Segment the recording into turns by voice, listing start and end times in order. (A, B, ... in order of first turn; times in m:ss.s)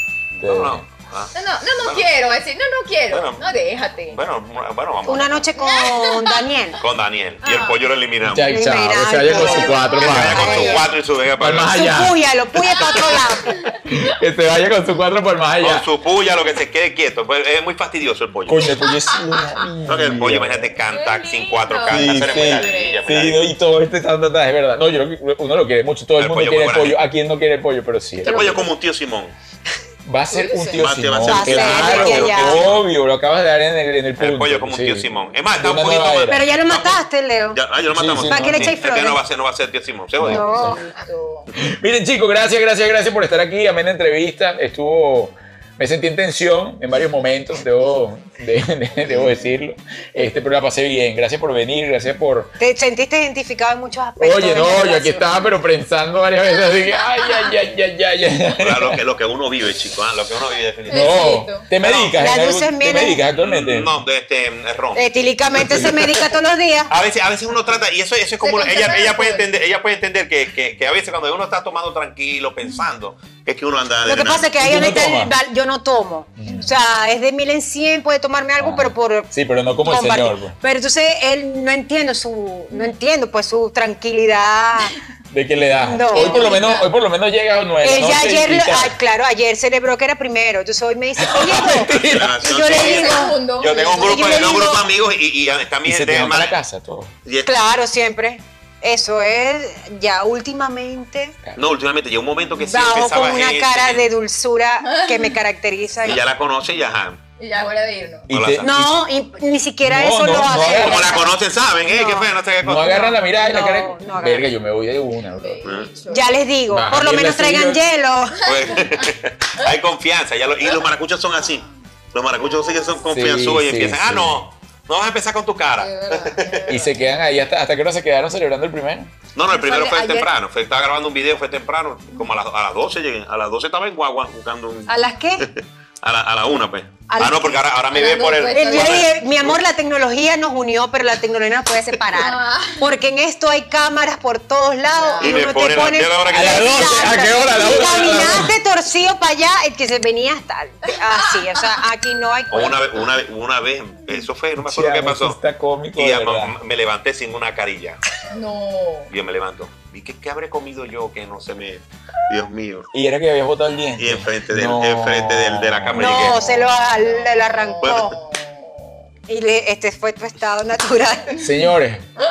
0:00.3-0:02.1 A
0:00.4-0:00.8 B
0:01.3-0:04.2 C
0:03.1-0:03.5 A
0:04.1-0:05.5 A
0:05.0-0:06.8 D
0:05.6-0:06.5 C
0:06.8-0:08.6 A
0:07.4-0:07.8 C
0:08.2-0:10.7 B
0:08.4-0:10.9 D
0:09.3-0:11.9 A
0:09.4-0:10.9 C
0:11.4-0:12.2 B
0:11.7-0:13.6 D
0:12.7-0:13.8 C
0:12.8-0:13.2 A
0:13.8-0:15.8 B
0:15.6-0:18.7 A
0:18.5-0:20.8 B
0:19.9-0:23.5 A
0:20.9-0:23.0 C
0:21.9-0:28.6 B
0:26.2-0:27.1 A
0:28.2-0:29.4 A
0:28.3-0:28.7 C
0:30.0-0:36.5 B
0:30.3-0:30.8 C
0:30.8-0:32.8 A
0:31.2-0:32.7 D
0:34.2-0:40.5 A
0:36.3-0:39.2 D
0:37.9-0:38.8 B
0:40.2-0:40.8 B
0:40.2-0:40.8 D
0:40.4-0:41.5 C
0:41.6-0:52.6 B
0:52.6-0:55.3 D
0:54.2-0:59.0 B
0:57.0-0:57.5 C
0:58.6-1:02.4 A
1:00.9-1:01.7 C
1:00.9-1:03.9 B
1:02.2-1:03.2 D
1:03.4-1:06.2 A
1:04.9-1:06.9 D
1:06.9-1:14.5 A
1:08.4-1:09.5 C
1:14.0-1:19.3 D
1:14.6-1:15.4 B
1:16.4-1:16.6 B
1:16.5-1:16.7 C
1:18.6-1:20.6 B
1:19.8-1:25.0 D
1:25.3-1:29.0 B
1:25.8-1:26.8 D
1:25.9-1:26.9 C
1:27.8-1:34.9 D
1:31.2-1:32.3 B
1:31.9-1:36.6 A
1:32.5-1:34.6 C
1:35.9-1:37.1 B
1:37.2-1:37.5 A
1:37.5-1:41.4 D
1:41.6-1:44.0 A
1:42.6-1:46.2 D
1:44.8-1:45.4 C
1:46.0-1:47.2 A
1:47.4-1:48.3 C
1:48.3-1:49.0 B
1:48.3-1:48.8 A
1:48.6-1:54.5 D
1:49.8-1:51.2 B
1:50.6-1:53.1 A
1:52.6-1:55.7 B
1:55.3-1:56.3 C
1:55.6-1:55.9 A
1:56.1-1:58.5 D
1:56.7-1:57.8 B
1:58.4-1:59.8 C
1:58.4-2:06.7 A
2:03.1-2:04.4 B
2:05.8-2:07.1 C
2:06.7-2:09.1 B
2:09.4-2:19.6 A
2:09.5-2:10.3 D
2:14.9-2:15.5 D
2:17.1-2:17.6 D
2:17.9-2:19.1 C
2:18.5-2:32.8 D
2:22.1-2:22.9 C
2:25.0-2:25.4 C
2:25.2-2:27.2 A
2:26.3-2:28.5 B
2:27.8-2:28.3 C
2:30.9-2:31.8 C
2:32.5-2:35.4 A
2:34.6-2:36.5 B
2:36.0-2:38.0 A
2:38.3-2:39.1 C
2:39.1-2:42.9 A
2:42.9-2:46.7 B
2:44.0-2:46.5 A
2:45.9-2:48.2 D
2:46.9-2:49.0 C
2:47.8-2:48.1 A
2:49.3-2:51.5 D
2:51.4-2:52.0 B